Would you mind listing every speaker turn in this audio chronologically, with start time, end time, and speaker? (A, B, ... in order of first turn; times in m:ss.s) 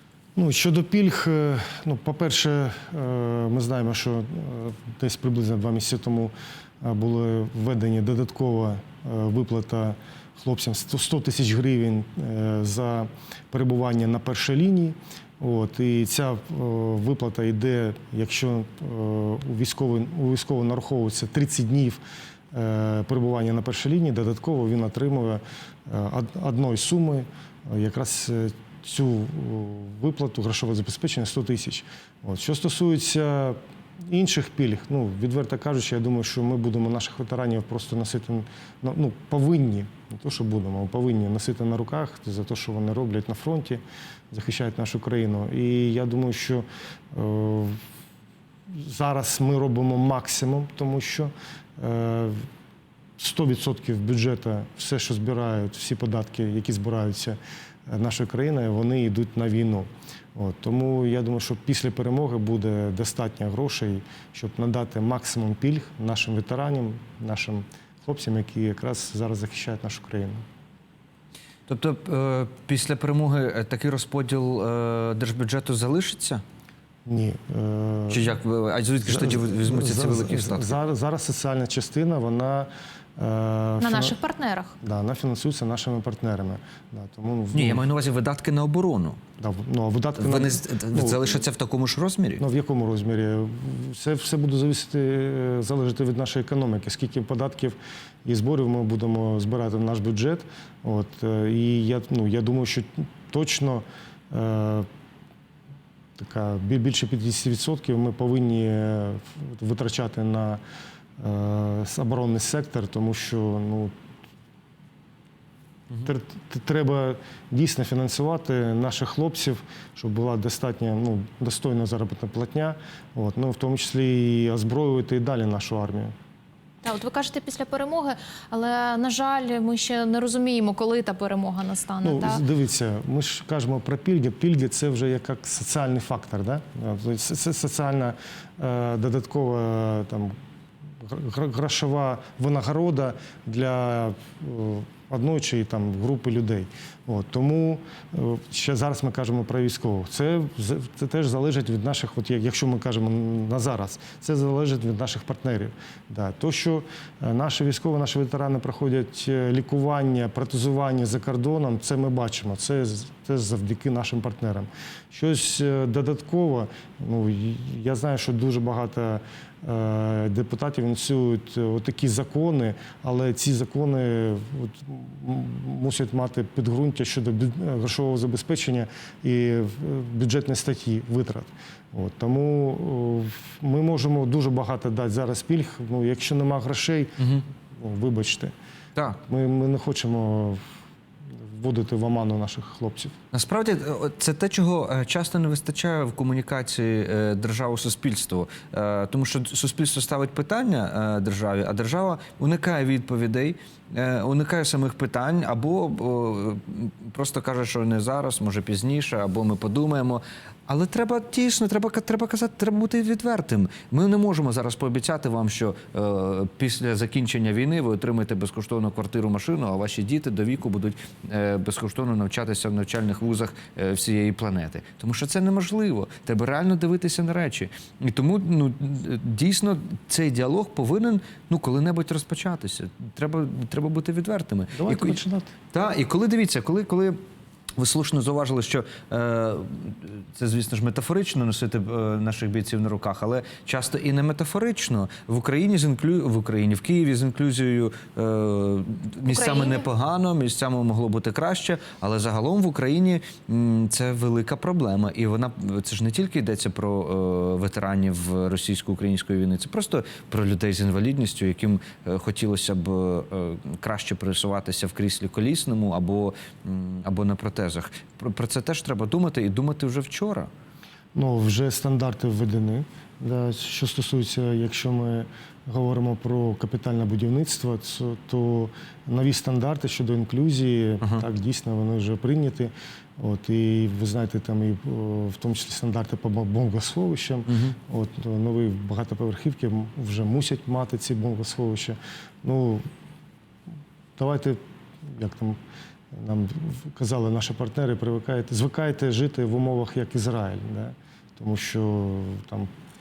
0:00.4-0:22.0 A
0:22.5-0:47.8 A
0:48.7-0:52.4 A
0:53.2-1:10.4 A
1:11.7-1:16.4 B
1:17.1-1:18.2 A
1:18.1-1:20.8 B
1:19.0-1:24.2 A
1:23.8-1:24.8 C
1:24.8-1:27.9 A
1:27.5-1:29.2 B
1:29.4-1:31.4 A
1:30.2-1:32.4 B
1:32.4-1:44.9 A
1:46.2-1:50.6 A
1:51.2-1:53.9 A
1:56.0-2:06.1 A
2:06.8-2:12.4 C
2:12.0-2:20.4 A
2:21.0-3:07.1 A
3:07.2-3:07.4 B
3:07.7-3:08.5 A
3:09.2-3:10.6 A
3:11.3-3:13.1 A
3:13.3-3:55.2 B
3:54.7-3:55.5 A
3:55.7-3:57.2 B
3:57.8-4:30.5 B
4:09.3-4:09.8 C
4:31.2-4:52.8 A
4:47.5-4:47.8 B
4:54.2-4:55.6 A
4:56.1-5:02.7 A